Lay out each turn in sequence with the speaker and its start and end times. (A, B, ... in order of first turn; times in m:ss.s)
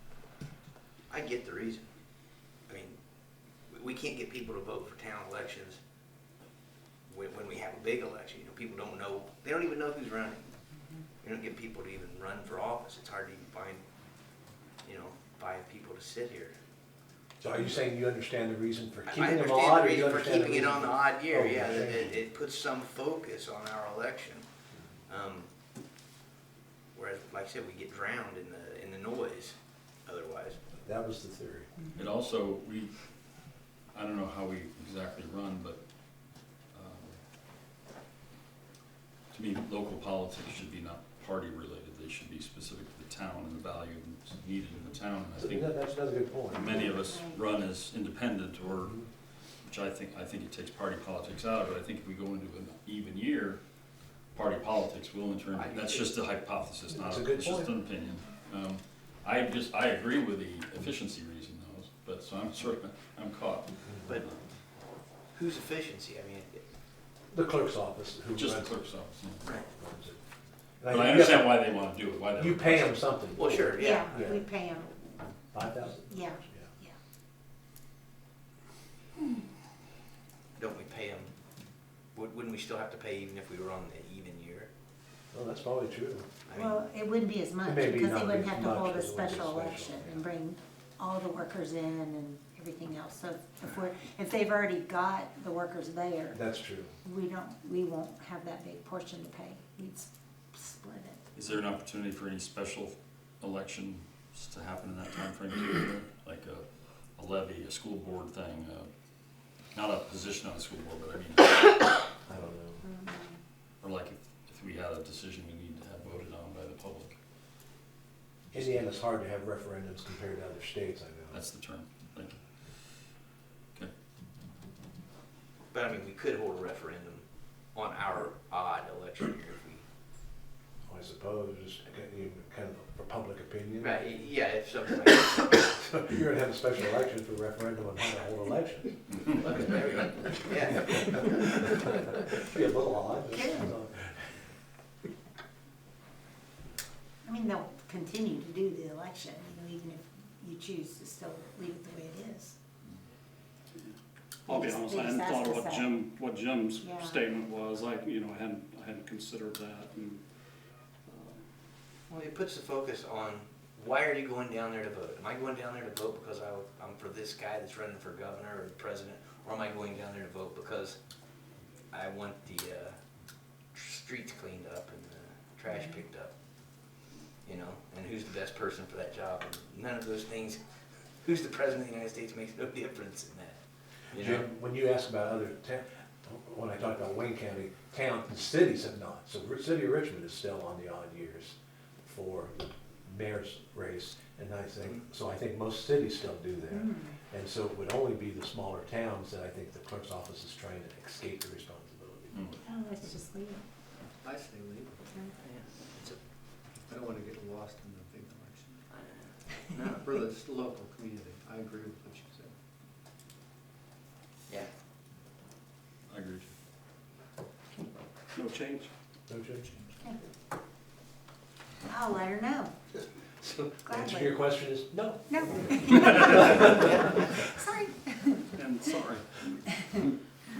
0:01.1-0:01.8 A
0:02.7-0:03.0 A
0:03.7-0:05.8 A
0:07.1-0:10.5 A
0:11.2-0:13.8 A
0:14.8-0:16.5 A
0:17.4-0:22.2 B
0:19.1-0:24.4 A
0:25.1-0:25.5 A
0:27.0-0:30.6 A
0:30.8-0:31.7 B
0:31.9-0:32.9 C
0:33.9-0:35.8 C
0:36.7-0:37.2 C
0:39.3-0:45.8 C
0:45.4-0:46.9 B
0:46.5-0:49.0 C
0:46.6-0:47.4 D
0:49.6-0:53.6 C
0:54.3-1:04.4 C
0:55.6-0:56.1 A
0:56.9-0:57.7 B
1:05.3-1:06.6 A
1:07.3-1:08.7 B
1:08.4-1:09.4 C
1:09.8-1:10.2 B
1:10.8-1:11.6 B
1:10.9-1:13.0 C
1:12.4-1:14.4 B
1:13.4-1:14.2 A
1:13.8-1:14.9 D
1:15.5-1:16.7 B
1:16.1-1:16.9 D
1:20.6-1:21.3 A
1:22.2-1:24.7 A
1:25.3-1:26.3 B
1:26.5-1:26.8 A
1:26.6-1:36.4 D
1:27.6-1:30.3 B
1:36.3-1:37.0 B
1:37.0-1:41.2 D
1:41.4-1:48.9 C
1:49.7-1:52.0 C
1:52.3-1:52.8 B
1:52.8-1:53.4 D
1:53.8-1:57.1 C
1:58.5-1:58.8 C
1:58.5-2:01.4 B
2:01.3-2:02.4 C
2:05.7-2:09.8 A
2:10.9-2:14.1 B
2:13.8-2:15.8 A
2:15.8-2:24.2 B
2:19.4-2:20.9 A
2:23.3-2:23.6 D
2:27.2-2:32.6 D
2:34.5-2:35.9 D
2:34.5-2:40.2 E
2:36.8-2:37.2 D
2:41.1-2:41.4 E
2:42.1-2:51.0 A
2:51.9-2:53.0 A
2:53.7-2:56.3 A
2:57.4-3:00.6 A
3:01.2-3:03.6 A
3:04.1-3:04.5 A
3:04.2-3:22.6 B
3:16.7-3:17.2 D
3:22.6-3:23.6 D
3:24.2-3:25.1 F
3:25.4-3:26.2 A
3:26.9-3:28.8 F
3:28.9-3:30.1 A
3:30.0-3:32.6 F
3:36.1-3:36.5 C
3:38.3-3:38.9 E
3:39.3-3:39.7 B
3:39.9-3:40.2 D
3:41.9-3:42.8 D
3:43.4-3:47.3 B
3:43.8-3:44.4 D
3:45.3-3:48.7 D
3:48.6-3:49.6 E